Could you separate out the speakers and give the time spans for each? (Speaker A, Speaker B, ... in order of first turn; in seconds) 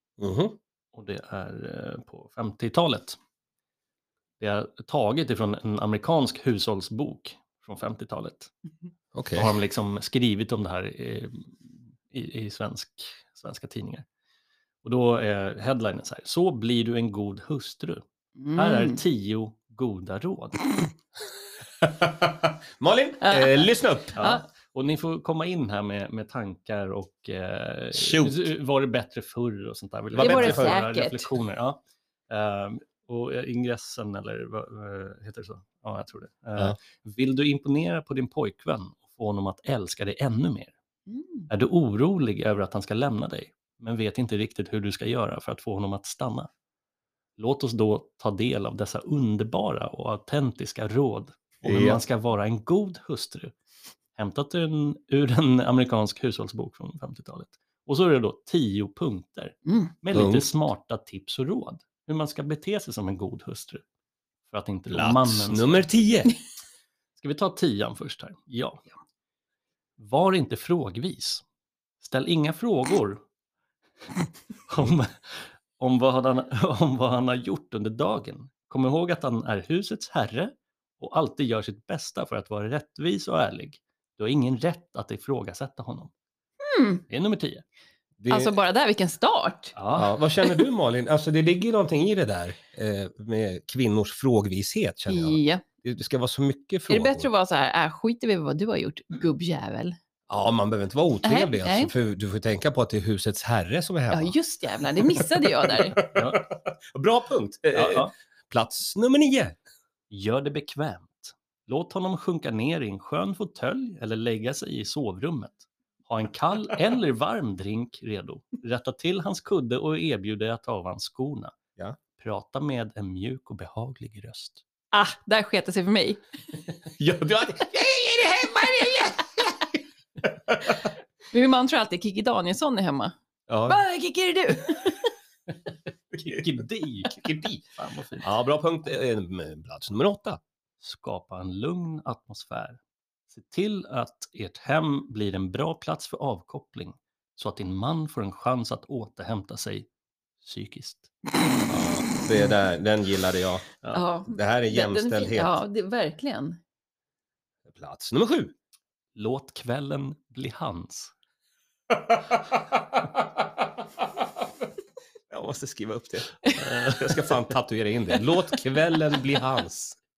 Speaker A: 0.2-0.6, 9.1-9.5, 21.8-24.3, 27.9-28.5, 30.2-30.8, 51.6-52.0, 60.1-60.5, 64.9-66.4, 88.2-88.5, 89.9-97.3, 100.3-104.3, 105.0-109.6, 127.0-129.7, 130.2-130.9, 133.5-133.8, 137.0-137.6, 138.2-140.4, 151.7-153.7, 154.3-155.6, 157.7-158.5, 161.9-163.0, 165.3-170.0
Speaker B: 0.9-3.2, 4.4-8.5, 9.3-14.1, 14.8-18.0, 18.5-20.7, 24.1-40.7, 41.5-46.5, 47.4-53.5, 54.1-63.8, 64.5-65.8, 67.2-68.9, 70.0-71.4, 72.0-73.2, 74.7-86.1, 87.1-87.6, 89.7-90.2, 106.0-106.5, 107.7-108.1, 110.1-121.5, 122.2-124.6, 136.1-138.2, 140.8-149.9, 150.4-151.1, 159.1-161.1, 166.6-167.3
Speaker C: 18.4-19.0, 23.2-24.4, 30.1-31.3, 41.1-41.5, 59.6-59.9, 86.6-87.0, 88.3-89.7, 90.4-90.7, 95.1-95.6, 96.9-100.0, 101.2-101.9, 104.1-106.0, 124.9-126.2, 131.3-133.1, 133.7-135.1, 153.9-156.6